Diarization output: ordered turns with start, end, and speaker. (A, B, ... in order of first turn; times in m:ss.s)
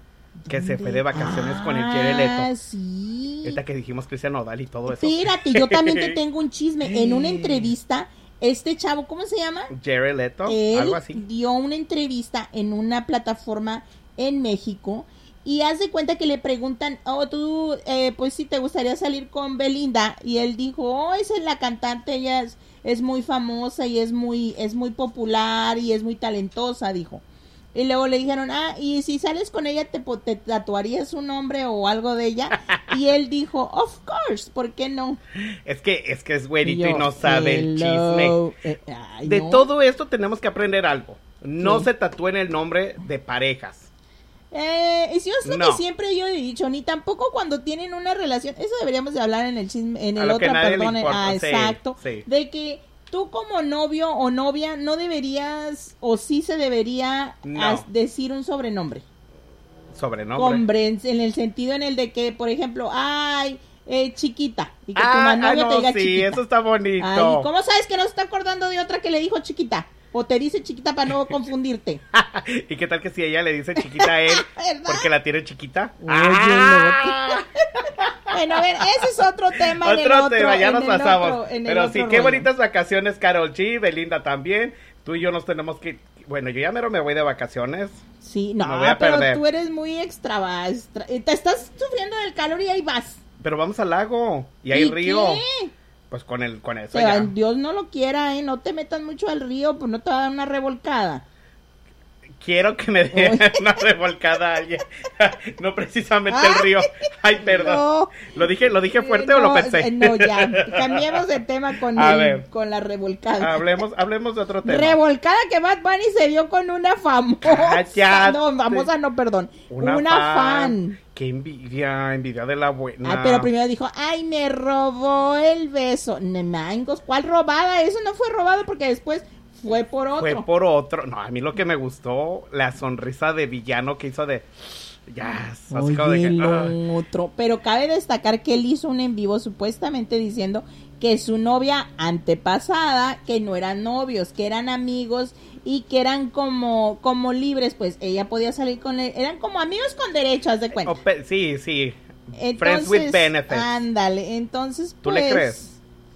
0:00.4-0:03.6 A
0:00.5-0:02.5 B
0:03.4-0:06.2 B
0:04.9-0:09.7 A
0:06.8-0:07.7 B
0:09.7-0:11.2 B
0:10.5-0:27.2 A
0:27.7-0:35.2 A
0:35.4-0:38.4 B
0:36.6-0:39.7 A
0:39.2-0:43.9 B
0:41.6-0:41.9 A
0:44.5-0:59.0 A
0:45.4-0:45.8 B
0:50.2-0:52.3 B
0:57.4-0:57.9 B
0:59.9-1:00.6 B
1:00.4-1:06.4 A
1:05.0-1:07.5 B
1:07.0-1:12.0 A
1:12.1-1:18.8 B
1:13.8-1:15.1 A
1:16.0-1:17.5 A
1:18.3-1:22.5 A
1:19.6-1:28.0 B
1:28.2-1:33.2 A
1:28.6-1:29.4 B
1:33.4-1:35.4 B
1:34.7-1:35.7 A
1:36.1-1:37.3 B
1:36.9-1:41.2 A
1:42.4-1:51.2 B
1:43.1-1:43.8 A
1:46.3-1:46.8 A
1:47.4-1:48.3 A
1:48.9-1:53.7 A
1:51.9-1:52.5 B
1:53.4-1:55.0 B
1:54.6-2:01.0 A
1:57.4-1:58.9 B
1:59.7-2:03.5 B
2:03.0-2:10.4 A
2:10.2-2:16.8 B
2:15.7-2:31.0 A
2:30.8-2:33.8 B
2:32.4-2:35.8 A
2:35.0-2:35.6 B